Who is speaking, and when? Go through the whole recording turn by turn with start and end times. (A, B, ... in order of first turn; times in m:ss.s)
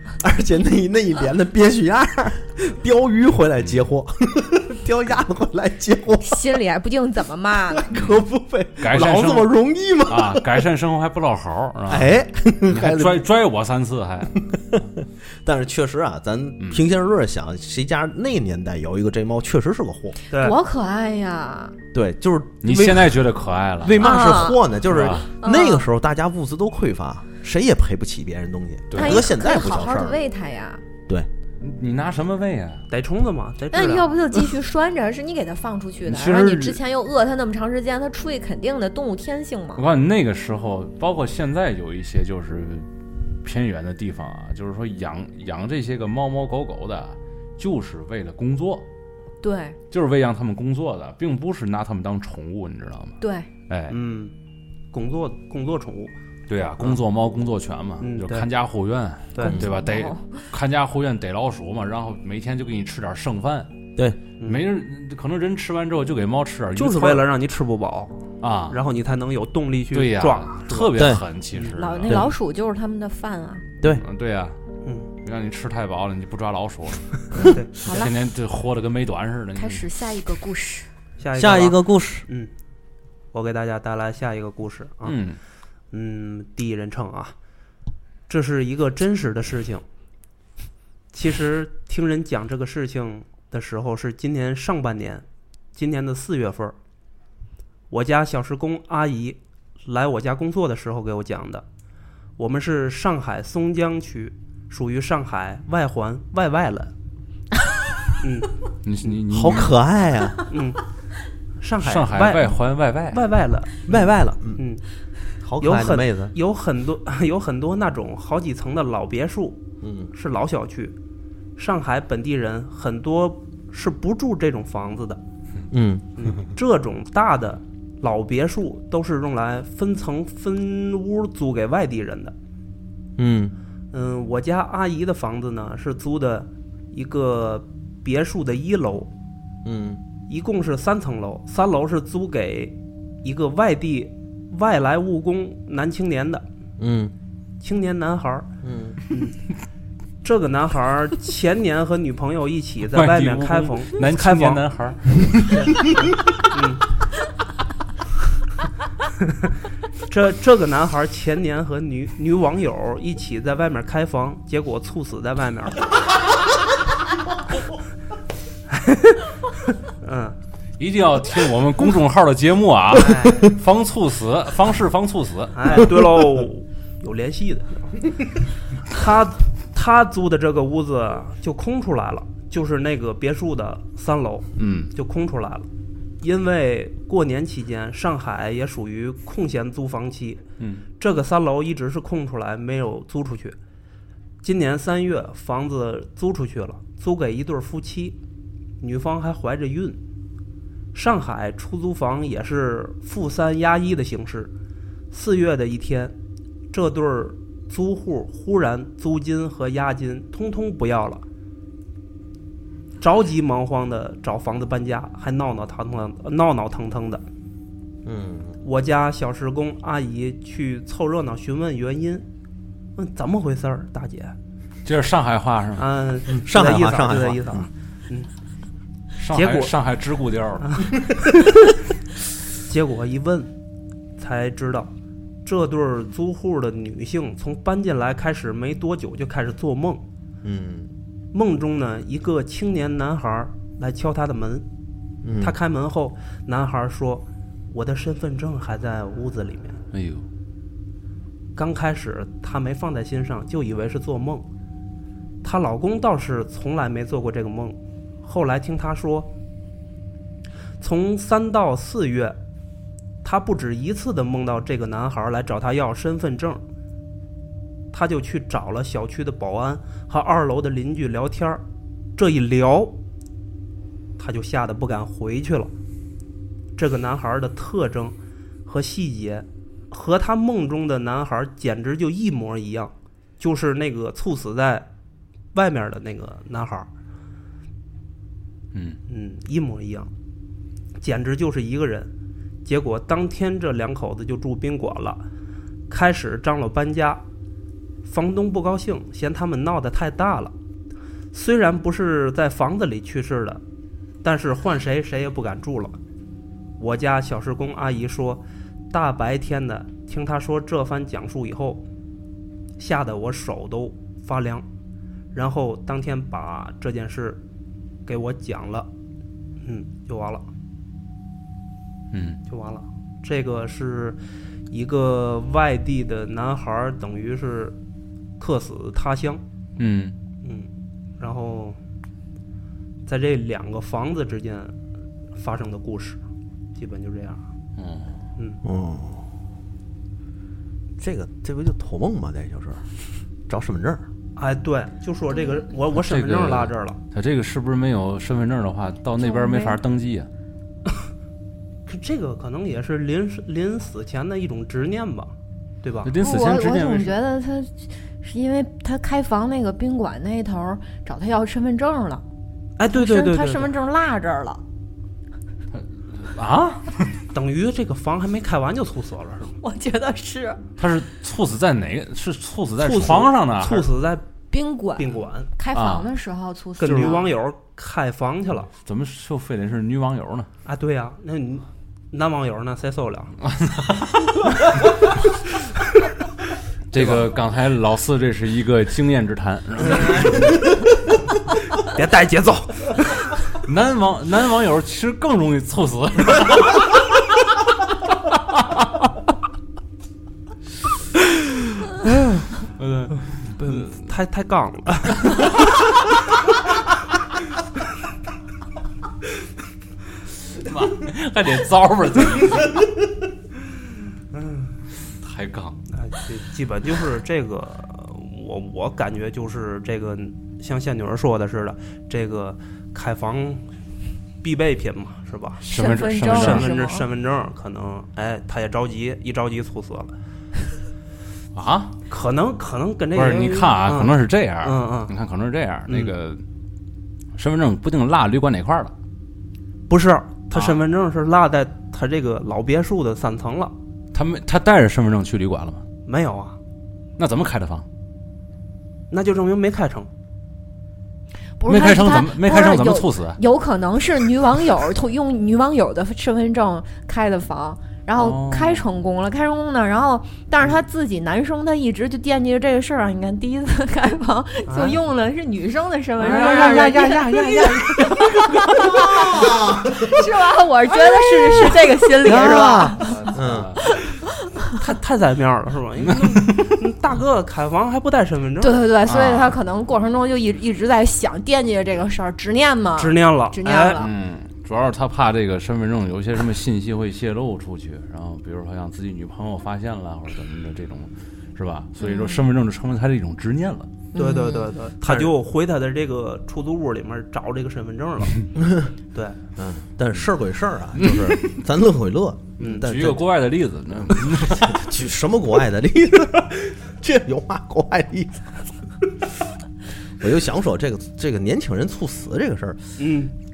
0:00.2-0:06.6 A
0:06.2-0:07.9 B
0:07.7-0:10.6 A
0:08.8-0:09.5 C
0:10.0-0:12.1 C
0:11.9-0:13.2 A
0:12.7-0:14.4 C
0:14.5-0:20.2 A
0:20.3-0:20.6 D
0:20.3-0:21.7 B
0:21.9-0:23.1 A
0:22.6-0:24.1 C
0:23.8-0:30.2 A
0:24.0-0:24.6 B
0:24.9-0:25.2 C
0:25.4-0:25.9 B
0:28.9-0:29.3 C
0:28.9-0:30.8 B
0:31.6-0:32.8 C
0:32.9-0:34.1 D
0:33.7-0:39.8 B
0:36.0-0:36.8 C
0:39.8-0:42.9 C
0:43.4-0:48.8 C
0:49.4-0:49.8 B
0:49.9-0:53.2 C
0:53.2-0:53.5 B
0:53.7-0:54.0 C
0:53.9-0:54.3 D
0:54.9-0:56.1 D
0:56.5-1:03.7 C
0:58.0-0:58.5 D
0:59.3-0:59.6 D
0:59.4-1:00.5 B
1:04.4-1:07.2 C
1:06.8-1:08.2 D
1:08.4-1:08.8 C
1:08.7-1:10.9 D
1:09.9-1:12.3 C
1:11.0-1:11.2 A
1:11.7-1:13.6 B
1:13.9-1:14.6 C
1:14.8-1:15.1 D
1:15.2-1:19.8 C
1:17.4-1:18.0 D
1:17.8-1:18.1 B
1:19.6-1:20.9 B
1:21.2-1:22.5 D
1:21.4-1:22.2 A
1:23.3-1:25.2 D
1:25.0-1:25.4 C
1:25.9-1:27.3 D
1:28.3-1:29.8 D
1:31.1-1:36.8 D
1:37.9-1:41.6 D
1:42.4-1:46.9 D
1:48.2-1:48.5 D
1:48.8-1:49.8 C
1:49.3-1:50.4 A
1:50.5-1:50.8 D
1:51.6-1:52.6 D
1:51.8-1:53.2 C
1:53.1-1:54.0 D
1:53.9-1:54.6 A
1:54.6-1:54.8 D
1:55.4-1:56.3 A
1:55.6-1:59.6 D
1:59.8-2:00.1 A
2:00.1-2:00.9 D
2:01.6-2:05.2 D
2:05.7-2:06.0 A
2:06.2-2:12.3 D
2:13.2-2:13.5 A
2:13.9-2:19.1 D
2:19.6-2:20.0 A
2:20.3-2:26.4 D
2:26.8-2:27.1 A
2:27.6-2:28.5 D
2:28.6-2:29.0 A
2:29.1-2:29.4 D
2:30.2-2:34.6 D
2:32.9-2:35.5 C
2:35.4-2:36.8 D
2:40.1-2:45.9 D
2:48.7-2:49.2 D
2:50.0-2:50.4 D
2:50.8-2:55.9 C
2:52.9-2:53.5 D
2:55.5-2:58.3 D
2:58.9-3:05.7 D
3:04.6-3:04.9 C
3:06.2-3:10.4 D
3:11.0-3:13.6 D
3:14.4-3:18.2 D
3:18.8-3:20.0 D
3:20.9-3:24.5 D
3:25.1-3:26.1 D
3:26.7-3:31.2 D
3:33.0-3:37.2 D
3:38.0-3:38.6 A
3:38.6-3:42.3 D
3:43.0-3:44.3 D
3:44.8-3:45.9 C
3:45.8-3:48.3 D
3:46.3-3:47.7 A
3:49.2-3:50.8 C
3:49.3-3:49.7 D
3:50.6-3:51.6 D
3:52.6-3:53.5 D
3:54.2-3:54.9 D
3:55.4-4:00.0 D
4:00.4-4:00.9 A
4:01.3-4:04.6 D
4:05.2-4:05.6 A
4:05.4-4:09.8 D
4:09.9-4:10.2 C
4:11.6-4:14.5 D
4:15.4-4:19.3 D
4:20.8-4:22.4 D
4:23.2-4:26.6 D
4:27.9-4:31.6 D
4:32.2-4:33.0 D
4:34.2-4:35.7 D
4:36.8-4:44.9 D
4:45.5-4:46.9 D
4:48.7-4:49.0 C
4:49.1-4:50.1 D
4:51.0-4:52.1 D
4:52.6-4:55.2 D
4:55.9-4:57.2 D
4:58.0-5:00.5 D
5:01.3-5:03.6 D
5:04.2-5:06.0 D
5:06.8-5:11.8 D
5:12.8-5:14.6 D
5:15.3-5:17.4 D
5:18.0-5:18.9 D
5:19.6-5:20.5 D
5:22.1-5:22.4 C
5:22.5-5:24.2 D
5:24.7-5:27.8 D
5:28.4-5:29.4 D
5:29.8-5:30.2 C
5:30.4-5:31.8 D
5:33.0-5:34.8 D
5:35.3-5:36.2 D
5:36.8-5:37.4 D
5:37.8-5:38.2 C
5:38.6-5:39.2 A
5:41.0-5:42.8 A
5:43.5-5:44.0 A
5:44.4-5:47.0 D
5:46.0-5:50.3 C
5:49.2-5:49.8 B
5:51.8-5:56.1 D
5:56.0-5:57.1 C
5:56.2-6:02.2 B
6:02.8-6:03.7 D
6:02.9-6:04.6 B
6:05.7-6:07.1 C
6:07.3-6:09.5 D
6:09.6-6:10.6 B
6:10.8-6:13.9 C
6:12.8-6:14.3 D
6:14.5-6:17.3 B
6:15.0-6:15.5 D
6:15.7-6:16.1 C
6:16.8-6:18.7 D
6:18.8-6:20.5 C
6:20.6-6:23.3 D
6:23.4-6:24.4 C
6:26.9-6:30.6 C
6:29.9-6:30.5 D
6:31.8-6:33.1 D
6:33.6-6:37.0 C
6:42.2-6:42.4 D
6:42.8-6:44.0 C
6:43.1-6:45.7 D
6:50.5-6:53.0 C
6:54.3-6:54.7 D
6:55.2-6:55.8 C
6:55.9-7:03.6 D
7:04.4-7:05.6 D
7:05.6-7:06.7 C
7:05.7-7:07.0 B
7:06.3-7:10.1 D
7:11.5-7:11.9 C
7:12.1-7:15.1 D
7:13.1-7:16.4 C
7:15.9-7:16.1 D
7:17.4-7:18.9 C
7:19.9-7:23.7 D
7:20.5-7:20.8 C
7:24.1-7:25.8 C
7:26.0-7:26.6 D
7:27.2-7:27.8 C
7:29.1-7:30.1 D
7:31.6-7:53.3 B
7:31.7-7:33.4 C
7:38.2-7:38.8 C
7:44.7-7:45.0 D
7:46.2-7:47.7 D
7:46.4-7:47.2 C
7:48.7-7:50.2 A
7:52.2-7:53.7 A
7:52.9-7:53.8 C
7:53.8-7:54.8 B
7:54.8-7:58.8 D
7:56.2-7:56.6 C
7:58.6-8:04.1 B
7:59.1-7:59.6 C
8:03.0-8:04.0 D
8:04.0-8:13.9 C
8:12.0-8:12.4 B
8:14.1-8:14.7 B
8:14.1-8:18.5 D
8:15.0-8:15.3 A
8:18.6-8:18.9 A
8:19.1-8:19.4 D
8:19.6-8:23.2 A
8:21.0-8:21.6 C
8:22.6-8:22.8 D
8:22.6-8:24.8 C
8:24.1-8:28.6 A
8:30.2-8:32.9 A
8:33.0-8:33.3 D